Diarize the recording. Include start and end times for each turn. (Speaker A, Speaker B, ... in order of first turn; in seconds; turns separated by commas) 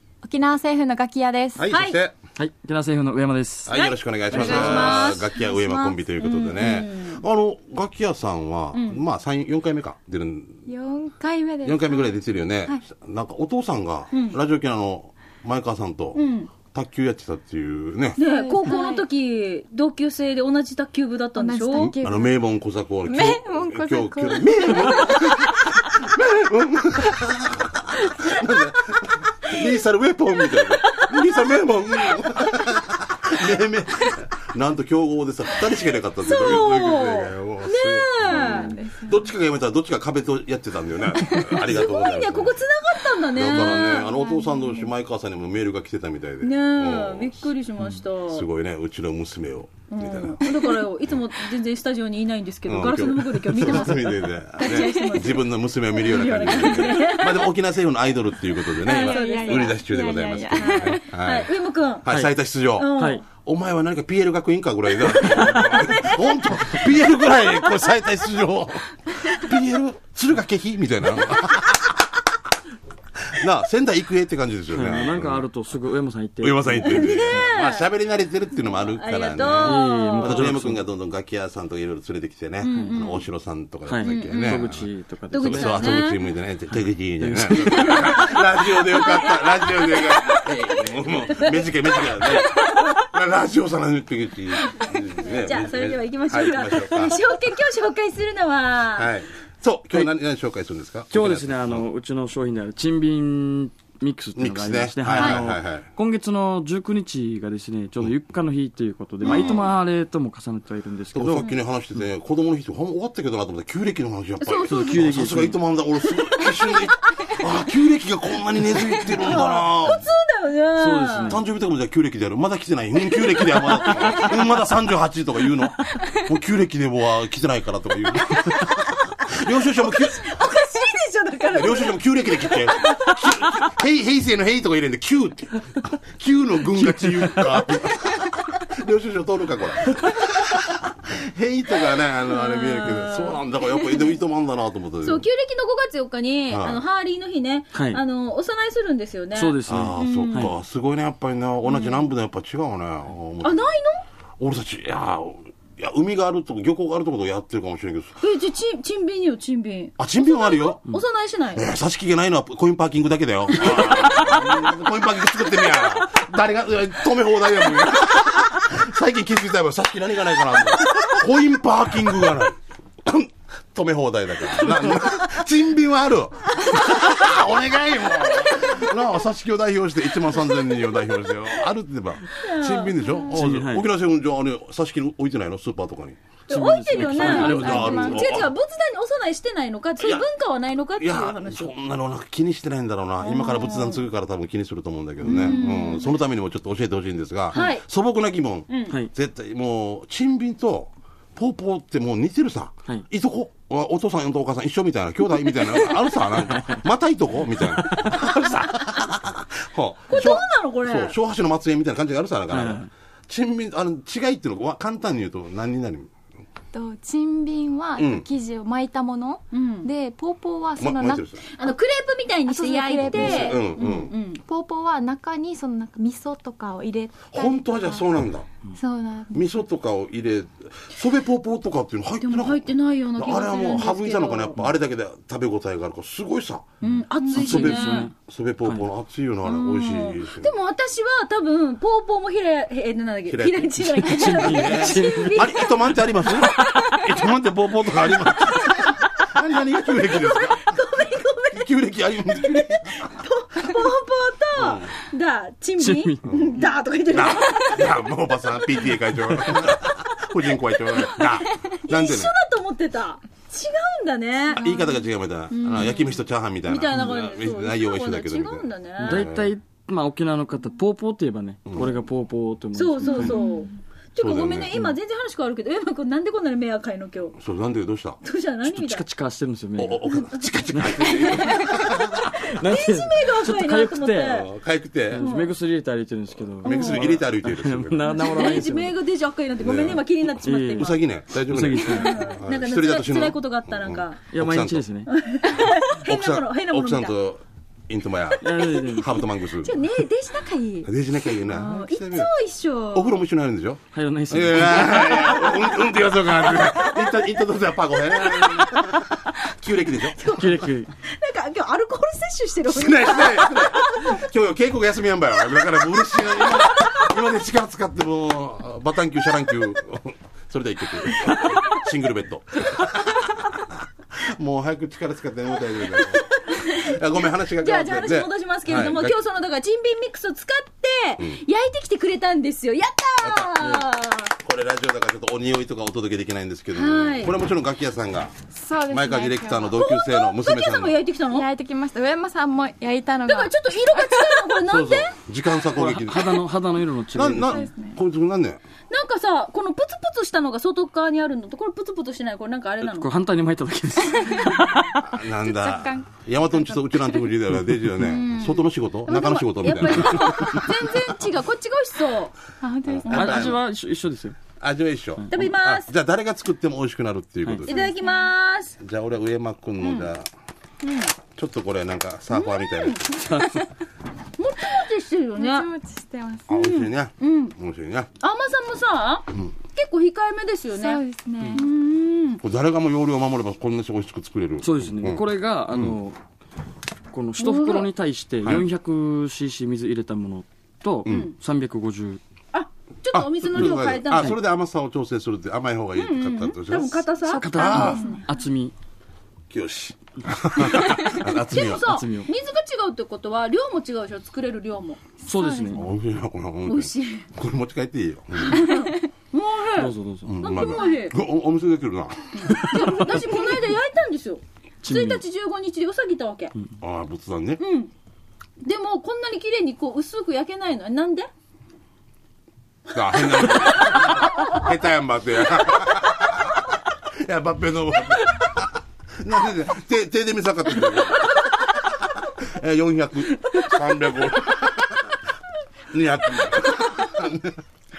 Speaker A: 0.2-1.7, Speaker B: 1.6-2.1, Speaker C: 1.7-2.0, Speaker D: 2.4-3.7, Speaker B: 3.6-10.7, Speaker C: 3.7-5.3, Speaker A: 4.3-6.0, Speaker D: 4.3-4.7, Speaker C: 6.2-7.2, Speaker C: 8.7-9.0, Speaker A: 10.7-12.2, Speaker B: 11.6-18.2, Speaker C: 14.1-14.4, Speaker C: 16.1-16.5, Speaker A: 18.2-19.1, Speaker C: 18.2-21.9, Speaker A: 21.3-22.4, Speaker B: 21.8-42.6, Speaker A: 23.0-25.8, Speaker C: 30.6-31.1, Speaker C: 36.2-38.8, Speaker A: 38.4-39.2, Speaker C: 41.4-44.5, Speaker B: 43.2-47.5, Speaker C: 46.4-48.5, Speaker B: 48.2-50.5, Speaker C: 49.9-57.5, Speaker B: 52.6-61.5, Speaker A: 54.6-55.2, Speaker A: 58.7-61.0, Speaker C: 58.8-59.8, Speaker C: 60.5-62.0, Speaker B: 62.0-72.3, Speaker C: 62.8-63.2, Speaker D: 62.9-63.2, Speaker D: 65.3-65.7, Speaker C: 65.9-66.8, Speaker B: 73.2-75.5, Speaker D: 74.7-77.4, Speaker B: 76.4-97.3, Speaker C: 76.8-77.9, Speaker C: 78.7-80.5, Speaker D: 79.6-80.8, Speaker C: 82.6-83.2, Speaker D: 82.7-83.0, Speaker D: 83.8-86.1, Speaker C: 84.0-84.7, Speaker C: 85.3-86.2, Speaker D: 87.2-88.5, Speaker C: 88.9-90.8, Speaker C: 91.3-93.0, Speaker C: 95.4-99.1, Speaker B: 98.9-101.8, Speaker D: 101.1-111.5, Speaker B: 104.3-105.9, Speaker C: 109.2-109.6, Speaker B: 109.3-109.6, Speaker B: 111.1-120.0, Speaker C: 114.4-115.0, Speaker D: 114.7-115.6, Speaker C: 116.3-117.4, Speaker C: 118.8-121.3, Speaker D: 120.8-121.4, Speaker B: 121.2-130.3, Speaker C: 123.0-124.3, Speaker C: 129.8-133.4, Speaker B: 131.5-145.2, Speaker D: 136.8-137.5, Speaker C: 139.8-140.8, Speaker C: 142.3-144.1, Speaker C: 145.0-150.5, Speaker B: 146.5-146.8, Speaker D: 147.7-148.0, Speaker D: 149.3-150.5, Speaker B: 149.7-153.7, Speaker C: 151.6-152.1, Speaker C: 153.4-154.0, Speaker B: 154.4-158.2, Speaker C: 158.2-161.6, Speaker B: 160.0-160.8, Speaker B: 161.5-186.2, Speaker C: 176.7-177.5, Speaker C: 178.1-178.9, Speaker C: 182.3-183.2, Speaker D: 183.3-183.9, Speaker D: 186.5-188.2, Speaker C: 186.5-191.7, Speaker B: 186.9-188.5, Speaker A: 187.4-188.2, Speaker B: 190.0-190.3, Speaker B: 191.0-216.1, Speaker C: 193.2-194.0, Speaker C: 195.2-196.2, Speaker D: 195.2-195.6, Speaker C: 197.5-197.8, Speaker C: 198.7-199.0, Speaker C: 210.1-211.1, Speaker D: 212.5-212.9, Speaker A: 216.7-221.3, Speaker B: 218.0-218.2, Speaker C: 219.5-219.9, Speaker B: 220.8-221.4, Speaker C: 221.4-224.4, Speaker A: 222.4-228.1, Speaker B: 223.0-224.1, Speaker B: 227.3-228.4, Speaker A: 228.7-229.5, Speaker B: 229.3-236.7, Speaker C: 232.2-234.6, Speaker D: 236.8-238.1, Speaker C: 236.8-238.1, Speaker B: 237.3-240.5, Speaker C: 239.4-247.1, Speaker B: 243.3-250.8, Speaker D: 244.0-245.7, Speaker D: 246.4-247.0, Speaker C: 248.2-249.2, Speaker C: 250.0-251.7, Speaker B: 251.5-253.1, Speaker C: 252.3-258.9, Speaker B: 254.5-254.9, Speaker D: 255.8-256.3, Speaker B: 256.2-262.3, Speaker C: 261.1-264.6, Speaker B: 264.5-269.5, Speaker A: 264.6-265.1, Speaker C: 265.5-269.3, Speaker D: 269.0-273.4, Speaker B: 271.6-271.9, Speaker C: 272.7-277.4, Speaker A: 273.1-273.7, Speaker B: 274.2-274.9, Speaker B: 277.4-278.2, Speaker C: 278.2-279.0, Speaker D: 278.6-284.4, Speaker B: 279.8-282.2, Speaker C: 280.1-280.4, Speaker C: 281.0-284.5, Speaker B: 284.2-285.2, Speaker D: 285.1-289.0, Speaker C: 285.1-285.5, Speaker B: 286.6-288.5, Speaker C: 286.6-287.2, Speaker C: 288.2-290.9, Speaker B: 289.6-294.9, Speaker D: 290.4-292.3, Speaker C: 291.8-294.2, Speaker D: 294.3-295.1, Speaker C: 295.1-297.1, Speaker B: 295.5-299.8, Speaker C: 298.3-303.1, Speaker D: 298.4-299.2, Speaker B: 300.8-302.3, Speaker B: 302.9-310.4, Speaker D: 303.9-305.4, Speaker C: 304.9-307.3, Speaker C: 308.0-308.9, Speaker C: 310.1-314.2, Speaker D: 310.2-310.9, Speaker B: 312.7-329.2, Speaker C: 325.9-326.9, Speaker C: 327.6-334.3, Speaker B: 333.2-338.4, Speaker C: 336.7-337.4, Speaker A: 338.5-339.8, Speaker B: 338.9-341.0, Speaker C: 339.8-341.5, Speaker A: 341.2-344.6, Speaker C: 343.2-345.2, Speaker B: 344.7-346.4, Speaker D: 345.6-347.6, Speaker B: 347.1-348.6, Speaker A: 347.4-348.0, Speaker C: 348.9-353.1, Speaker D: 352.8-355.2, Speaker A: 354.1-354.6, Speaker B: 355.0-361.1, Speaker A: 355.3-357.4, Speaker C: 358.0-362.3, Speaker A: 362.6-363.6, Speaker B: 362.9-363.6, Speaker D: 363.1-364.4, Speaker B: 364.6-367.9, Speaker D: 365.2-365.5, Speaker C: 365.3-365.9, Speaker C: 367.6-368.8, Speaker A: 367.7-368.3, Speaker B: 368.8-370.3, Speaker C: 369.8-370.1, Speaker C: 370.8-371.1, Speaker B: 371.3-373.1, Speaker C: 372.3-373.0, Speaker D: 373.1-373.6, Speaker C: 374.4-375.7, Speaker A: 375.4-376.5, Speaker B: 376.5-378.1, Speaker C: 376.5-377.5, Speaker C: 378.2-381.0, Speaker A: 380.7-381.7, Speaker C: 381.5-382.4, Speaker B: 382.4-385.9, Speaker D: 384.6-386.2, Speaker D: 387.1-392.2, Speaker C: 387.4-387.9, Speaker B: 391.1-391.3, Speaker C: 391.1-391.3, Speaker C: 392.5-394.3, Speaker B: 393.1-398.0, Speaker C: 395.9-398.2, Speaker A: 397.2-398.2, Speaker D: 397.4-398.7, Speaker B: 399.5-401.9, Speaker C: 400.7-405.0, Speaker D: 401.7-402.3, Speaker D: 405.2-405.9, Speaker A: 405.4-405.8, Speaker B: 405.7-408.7, Speaker C: 406.6-407.3, Speaker C: 408.4-411.1, Speaker D: 409.8-410.3, Speaker B: 410.2-412.6, Speaker C: 412.4-416.5, Speaker D: 412.5-413.1, Speaker D: 414.8-415.2, Speaker B: 416.8-417.6, Speaker C: 417.6-417.9, Speaker C: 418.6-421.3, Speaker B: 422.9-435.0, Speaker C: 423.8-424.1, Speaker C: 433.4-433.8, Speaker C: 434.3-434.6, Speaker B: 435.9-437.6, Speaker C: 436.5-437.0